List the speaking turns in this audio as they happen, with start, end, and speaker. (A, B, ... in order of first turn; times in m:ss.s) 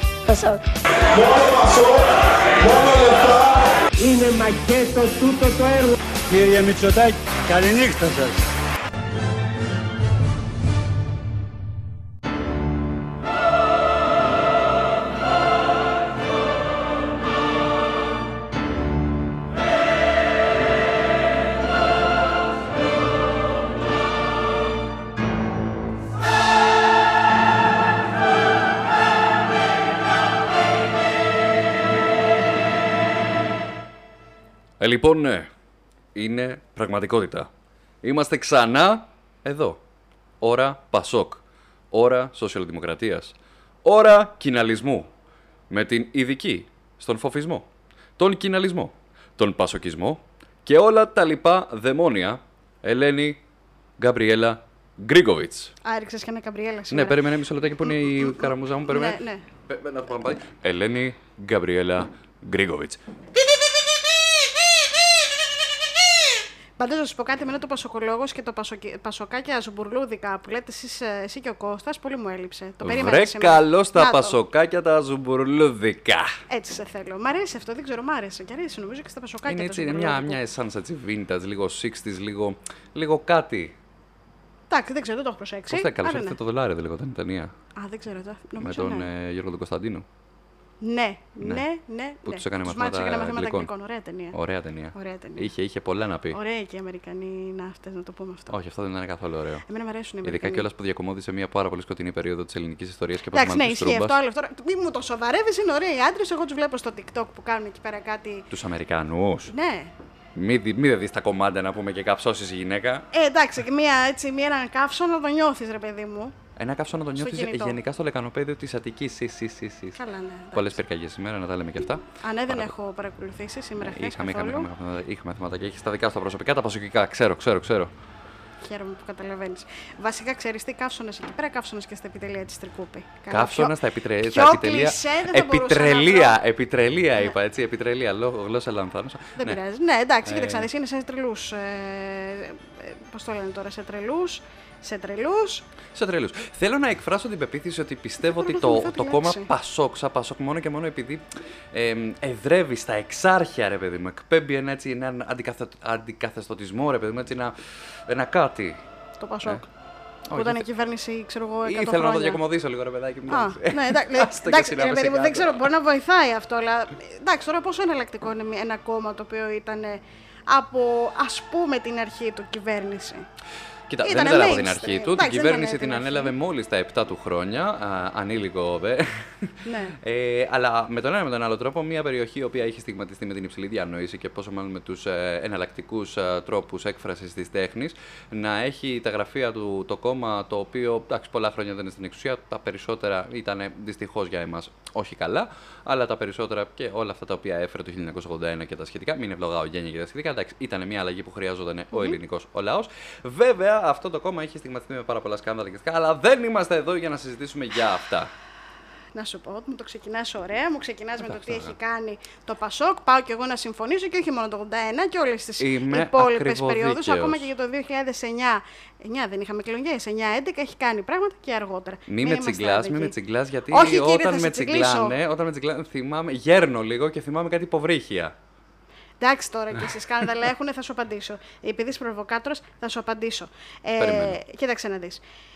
0:00.2-0:00.6 A
0:01.1-0:02.0 A
0:02.6-0:03.5 A
0:04.0-0:06.0 B
0:06.3-0:08.4 C
0:34.8-0:35.5 D
0:36.1-0:37.5 D
0:38.0-0:39.8 D
0:40.4-0:45.1 D
0:45.7-0:53.4 D
0:54.0-0:55.7 D
0:55.8-0:57.2 E
0:56.9-1:03.0 D
0:57.8-0:59.4 E
1:06.8-1:14.4 E
1:12.8-1:16.3 D
1:16.5-1:20.4 E
1:19.4-1:23.7 D
1:24.7-1:26.4 E
1:25.7-1:27.5 D
1:27.8-1:29.1 E
1:28.6-1:30.0 D
1:30.8-1:34.4 E
1:32.2-1:33.7 D
1:34.3-1:36.4 D
1:34.9-1:35.5 E
1:36.3-1:38.5 E
1:38.5-1:39.6 D
1:39.7-1:40.6 E
1:40.2-1:44.2 D
1:43.3-1:48.5 E
1:48.5-1:49.5 D
1:49.5-1:49.9 E
1:50.3-1:53.1 D
1:53.1-1:56.4 E
1:56.6-2:00.0 D
1:57.2-1:57.8 E
1:59.9-2:00.8 E
2:00.5-2:02.7 D
2:02.2-2:04.7 E
2:03.8-2:07.9 D
2:08.6-2:16.4 E
2:13.3-2:19.6 D
2:19.4-2:25.6 E
2:20.2-2:20.7 D
2:25.9-2:38.8 D
2:28.2-2:29.5 E
2:39.2-2:39.7 E
2:40.3-2:40.6 D
2:40.3-2:42.4 E
2:41.6-2:45.7 D
2:43.3-2:53.2 E
2:53.9-3:28.3 D
2:54.0-2:56.3 E
2:59.6-3:00.0 E
3:21.9-3:22.2 E
3:29.1-3:43.2 E
3:31.2-3:31.7 D
3:35.6-3:37.5 D
3:42.1-3:48.3 D
3:43.7-3:45.1 E
3:49.2-3:55.2 E
3:54.0-3:54.4 D